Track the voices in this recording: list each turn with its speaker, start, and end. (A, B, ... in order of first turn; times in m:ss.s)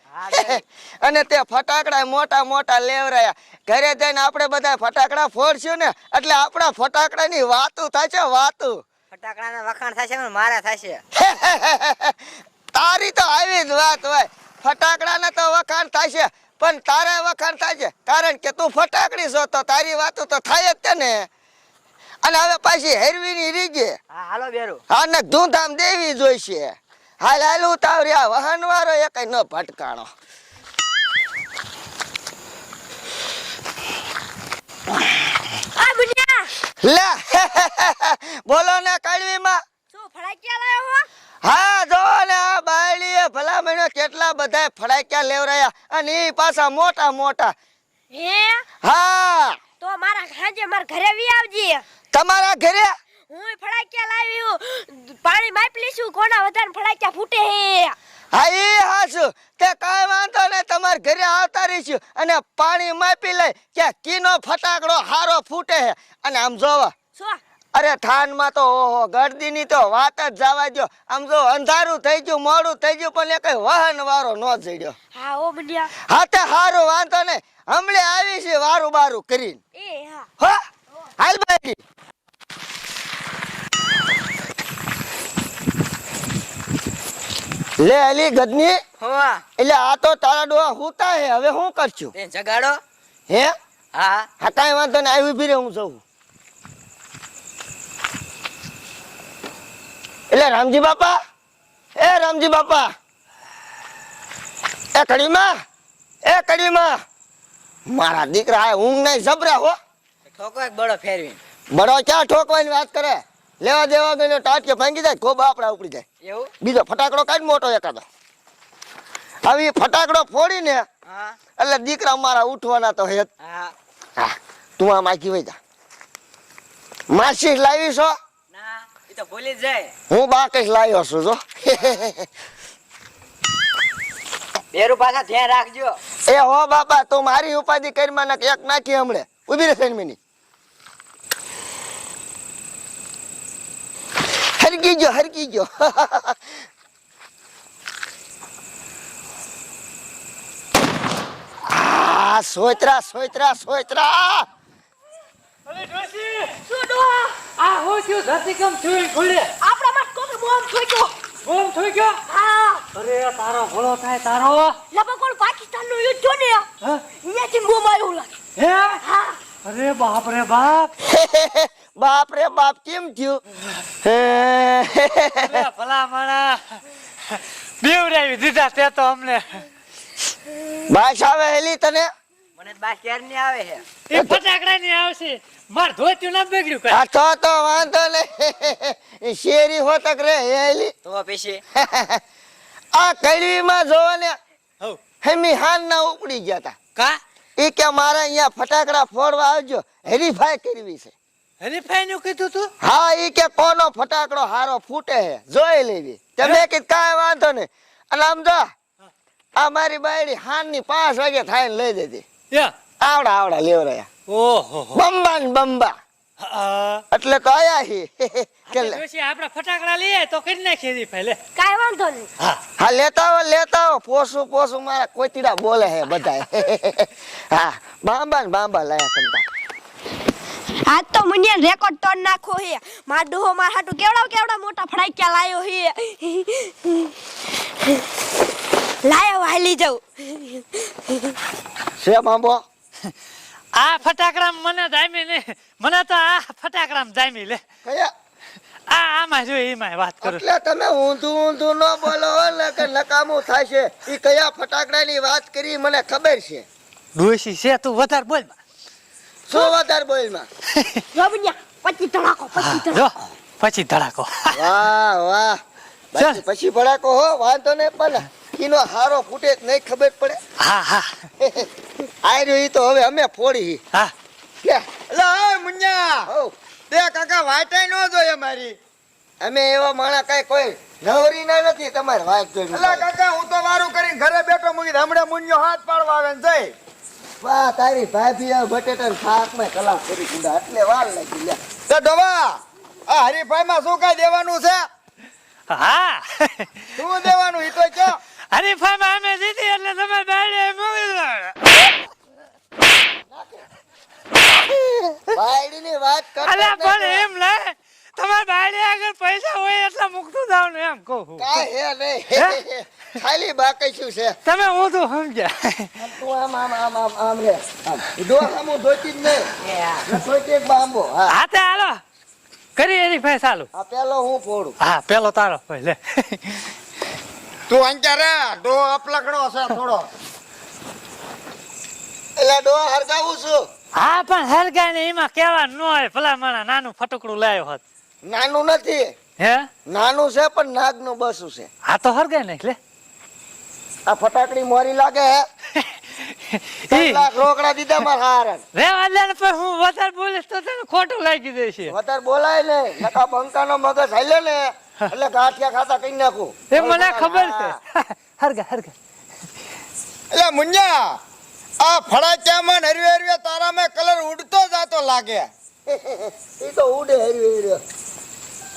0:00.2-0:00.6 A
0:00.3-0:08.8 B
0:09.1-0:11.0 A
0:11.2-0:12.2 B
0:12.7-0:21.3 B
0:22.2-0:24.0 B
0:24.1-0:24.8 A
0:24.9-0:30.1 B
0:35.7-0:36.5 C
0:36.8-0:39.6 B
0:39.9-0:41.1 C
0:41.4-0:47.5 B
0:48.1-0:48.6 C
0:48.8-0:49.6 B
0:49.8-0:51.8 C
0:52.1-0:52.9 B
0:53.3-0:58.0 C
0:58.3-1:06.9 B
1:07.7-1:15.0 B
1:15.1-1:15.9 C
1:16.0-1:19.6 B
1:19.7-1:20.3 C
1:21.2-1:21.8 B
1:27.8-1:28.8 B
1:29.0-1:29.4 A
1:29.6-1:32.1 B
1:32.1-1:32.8 A
1:33.9-1:34.3 A
1:34.4-1:36.0 B
1:40.3-1:41.2 B
1:42.0-1:42.9 B
1:44.9-1:45.5 B
1:46.2-1:47.0 B
1:47.9-1:49.8 B
1:50.3-1:51.4 A
1:51.7-1:56.0 B
1:56.2-1:56.5 A
1:56.6-1:58.0 B
1:59.4-2:00.8 B
2:01.1-2:01.4 A
2:01.6-2:03.3 B
2:03.4-2:03.7 A
2:04.2-2:05.6 B
2:07.1-2:08.1 B
2:08.5-2:09.9 A
2:10.1-2:12.2 B
2:14.7-2:16.0 A
2:16.3-2:20.2 B
2:24.6-2:26.4 B
2:31.7-2:34.4 B
2:35.7-2:36.5 D
2:36.6-2:37.5 C
2:37.6-2:39.5 D
2:39.6-2:41.1 C
2:41.4-2:42.2 D
2:42.3-2:42.8 C
2:42.9-2:44.8 D
2:44.9-2:48.3 C
2:48.6-2:49.0 D
2:49.0-2:49.4 C
2:49.6-2:50.9 D
2:51.0-2:53.4 B
2:54.0-2:55.6 B
2:55.4-2:59.7 D
3:00.9-3:02.1 B
3:02.6-3:03.8 A
3:04.1-3:07.0 D
3:06.9-3:10.9 B
3:11.0-3:11.6 A
3:11.8-3:12.2 B
3:12.9-3:14.3 B
3:15.2-3:16.8 B
3:17.6-3:21.1 B
3:21.6-3:22.7 D
3:22.8-3:28.7 B
3:29.6-3:32.2 B
3:33.0-3:34.1 B
3:34.3-3:35.0 D
3:34.9-3:35.9 B
3:36.4-3:37.0 D
3:37.1-3:39.0 B
3:38.7-3:41.4 D
3:41.6-3:42.3 C
3:42.8-3:49.4 B
3:50.7-3:58.2 C
3:59.0-4:01.4 C
4:02.0-4:02.6 B
4:03.7-4:07.6 D
4:07.8-4:08.1 B
4:08.9-4:10.4 D
4:10.2-4:16.6 B
4:17.1-4:18.6 D
4:19.5-4:20.5 B
4:20.8-4:21.0 D
4:21.1-4:23.1 C
4:22.6-4:24.6 D
4:24.5-4:25.6 B
4:26.1-4:30.4 B
4:30.6-4:31.1 D
4:31.4-4:31.7 B
4:32.2-4:33.8 B
4:35.1-4:36.2 E
4:36.3-4:36.5 B
4:36.9-4:38.8 E
4:39.4-4:43.1 B
4:42.7-4:46.7 E
4:47.4-4:51.6 B
4:51.9-4:54.8 E
4:55.7-4:56.9 D
4:57.0-4:58.2 E
4:58.5-5:01.9 D
5:03.3-5:03.6 B
5:04.7-5:05.2 D
5:05.3-5:07.2 B
5:06.4-5:11.6 D
5:11.4-5:14.4 B
5:14.4-5:16.0 D
5:16.0-5:19.5 B
5:19.7-5:20.0 A
5:20.0-5:21.4 B
5:21.3-5:22.0 D
5:22.8-5:23.7 D
5:23.7-5:24.8 B
5:24.8-5:26.7 D
5:27.7-5:30.1 E
5:32.4-5:33.6 B
5:34.0-5:37.8 D
5:38.2-5:39.1 B
5:39.4-5:39.7 D
5:39.9-5:41.7 B
5:41.8-5:42.8 D
5:44.0-5:45.4 B
5:45.8-5:47.2 D
5:46.9-5:48.6 B
5:48.7-5:51.9 D
5:51.9-5:57.7 B
5:56.7-5:58.9 D
6:00.3-6:01.2 E
6:01.8-6:05.5 E
6:05.9-6:07.8 B